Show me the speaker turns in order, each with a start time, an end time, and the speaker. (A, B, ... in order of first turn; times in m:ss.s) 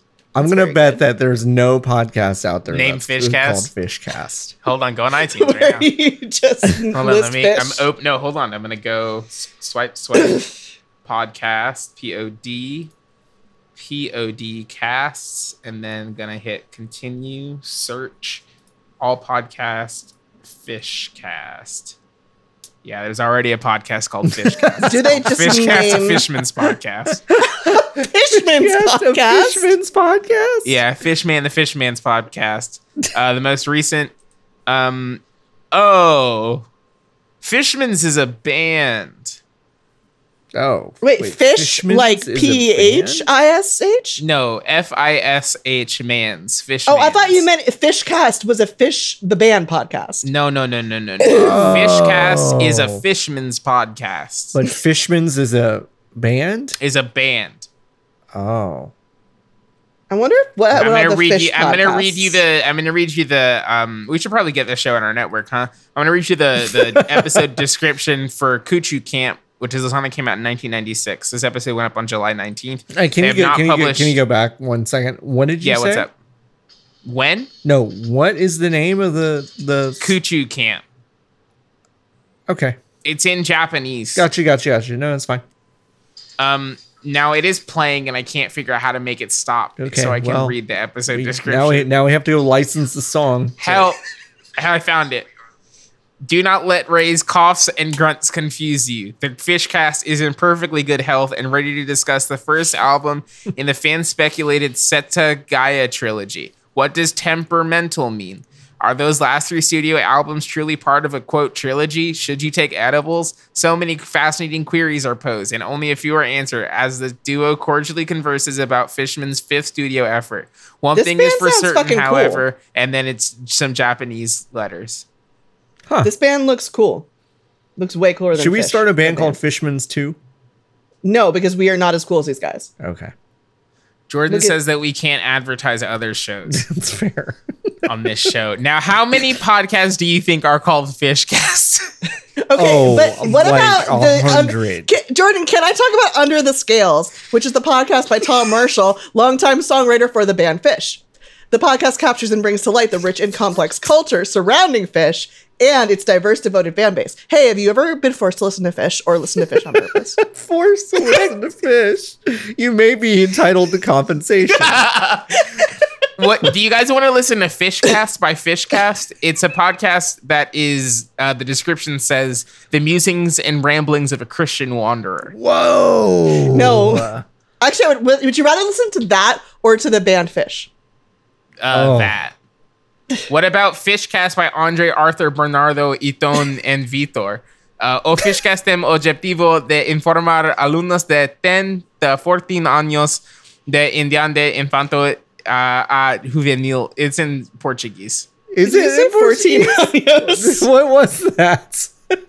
0:00.3-0:04.5 A
0:00.4-0:01.0 B
0:02.7-0:03.7 C
0:04.6-0:05.9 C
0:05.2-0:07.8 B
0:06.9-0:10.5 C
0:11.0-0:12.9 C
0:13.8-0:18.4 C
0:19.0-0:21.9 C
0:22.8-0:27.3 C
0:24.3-0:24.9 A
0:24.8-0:26.2 B
0:25.5-0:25.9 A
0:27.4-0:30.8 A
0:27.5-0:29.7 B
0:30.6-0:34.1 C
0:34.7-0:35.2 C
0:35.7-0:36.6 C
0:37.4-0:39.4 C
0:40.5-0:43.3 A
0:41.0-0:44.2 B
0:44.2-0:47.4 C
0:46.9-0:50.3 B
0:50.2-0:54.6 C
0:51.2-0:51.7 B
0:51.3-0:53.0 A
0:54.5-0:56.8 A
0:56.8-0:57.7 C
0:58.3-0:58.9 A
1:00.1-1:02.4 B
1:00.7-1:14.2 C
1:06.6-1:07.5 A
1:12.9-1:16.1 A
1:15.6-1:16.1 C
1:17.0-1:17.5 C
1:17.6-1:20.1 A
1:20.0-1:20.8 C
1:22.5-1:22.8 A
1:23.0-1:24.2 C
1:24.1-1:25.4 A
1:26.4-1:31.9 C
1:29.8-1:30.5 A
1:31.1-1:33.9 A
1:33.6-1:34.0 C
1:34.6-1:35.3 C
1:36.2-2:05.0 C
2:00.9-2:02.4 B
2:06.0-2:07.1 B
2:07.8-2:09.4 B
2:08.3-2:10.2 A
2:11.0-2:12.7 B
2:12.8-2:13.1 A
2:14.1-2:16.6 C
2:14.3-2:14.5 B
2:16.5-2:17.7 A
2:17.8-2:21.9 C
2:22.4-2:40.2 B
2:22.5-2:24.9 A
2:39.8-2:44.9 A
2:44.5-2:45.4 C
2:46.2-2:55.3 C
2:55.3-2:57.2 A
2:56.5-2:57.1 B
2:57.6-3:00.7 B
3:01.6-3:02.3 C
3:01.7-3:02.1 A
3:03.3-3:18.3 C
3:18.5-3:22.2 A
3:18.6-3:20.7 B